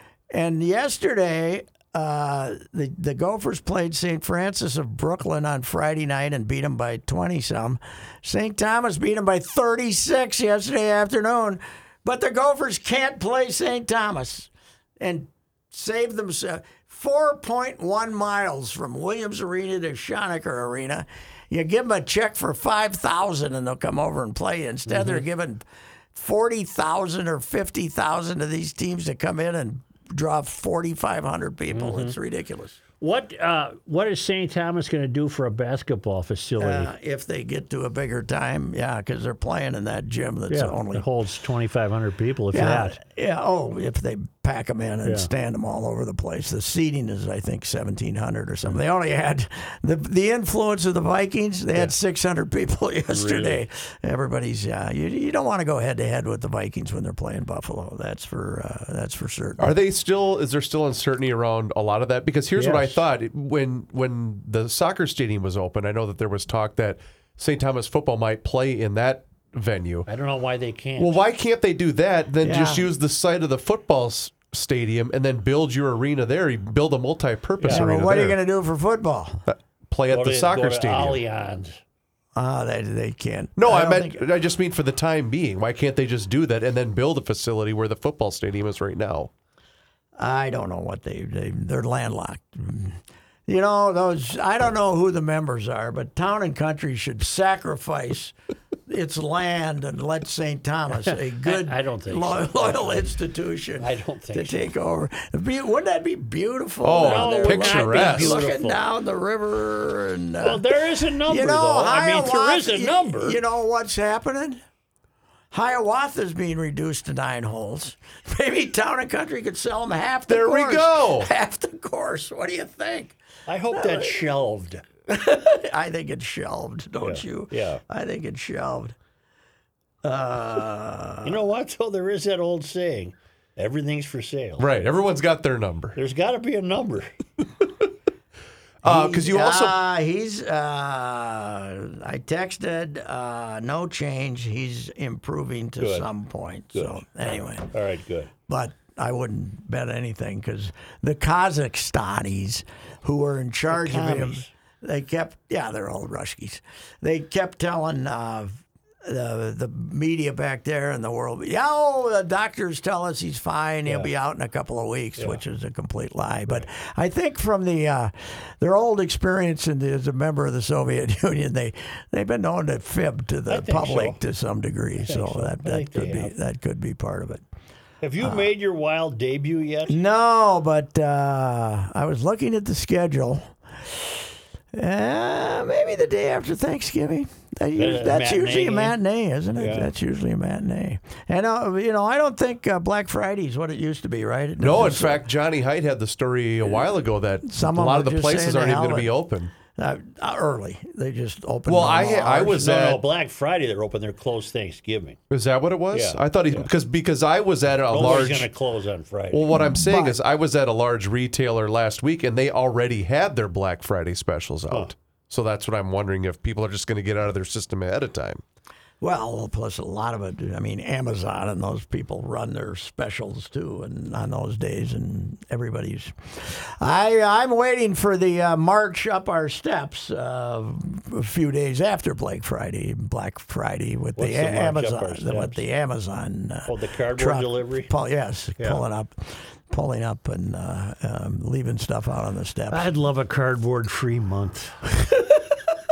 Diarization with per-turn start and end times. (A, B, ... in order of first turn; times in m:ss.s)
0:00.3-0:32.8 A
0:24.9-0:25.2 B
0:31.7-0:32.2 B
0:33.0-0:36.9 B
0:36.6-0:41.0 A
0:40.5-0:43.0 B
0:42.5-0:59.7 A
0:45.0-0:45.3 B
0:53.1-0:53.6 B
0:59.6-1:10.1 C
1:02.6-1:03.0 B
1:10.1-1:11.2 B
1:11.0-1:18.4 C
1:12.4-1:12.9 A
1:17.6-1:18.0 B
1:17.7-1:19.4 A
1:19.5-1:21.2 C
1:20.1-1:21.8 B
1:22.4-1:24.2 A
1:23.6-1:29.3 C
1:30.2-1:38.3 A
1:38.9-1:50.7 A
1:40.9-1:43.1 B
1:43.8-1:44.7 B
1:46.8-1:48.5 C
1:47.0-1:48.8 B
1:50.4-1:53.4 B
1:51.3-1:54.6 A
1:55.5-2:03.2 A
2:00.3-2:01.3 C
2:03.5-2:04.8 B
2:03.7-2:04.2 A
2:05.1-2:09.0 A
2:07.0-2:07.8 B
2:10.0-2:11.4 A
2:11.2-2:14.7 B
2:14.6-2:16.0 C
2:16.0-2:17.1 B
2:18.8-2:19.8 C
2:18.8-2:27.7 A
2:25.8-2:26.1 B
2:26.7-2:28.3 B
2:28.5-2:57.4 A
2:33.7-2:34.5 B
2:43.8-2:44.1 B
2:53.5-2:54.2 B
2:55.0-2:56.3 B
2:58.0-3:00.0 B
2:58.2-2:58.5 A
2:59.9-3:03.5 A
3:04.7-3:15.2 A
3:07.8-3:09.0 B
3:09.6-3:09.9 B
3:14.6-3:19.5 C
3:17.5-3:19.1 A
3:19.8-3:22.7 A
3:21.7-3:23.0 C
3:22.6-3:25.2 B
3:25.3-3:28.5 C
3:25.9-3:26.7 B
3:27.9-3:29.4 B
3:29.3-3:38.4 C
3:29.5-3:30.2 A
3:39.0-4:02.9 A
3:54.2-3:55.6 B
3:56.7-3:57.9 B
4:02.7-4:05.0 B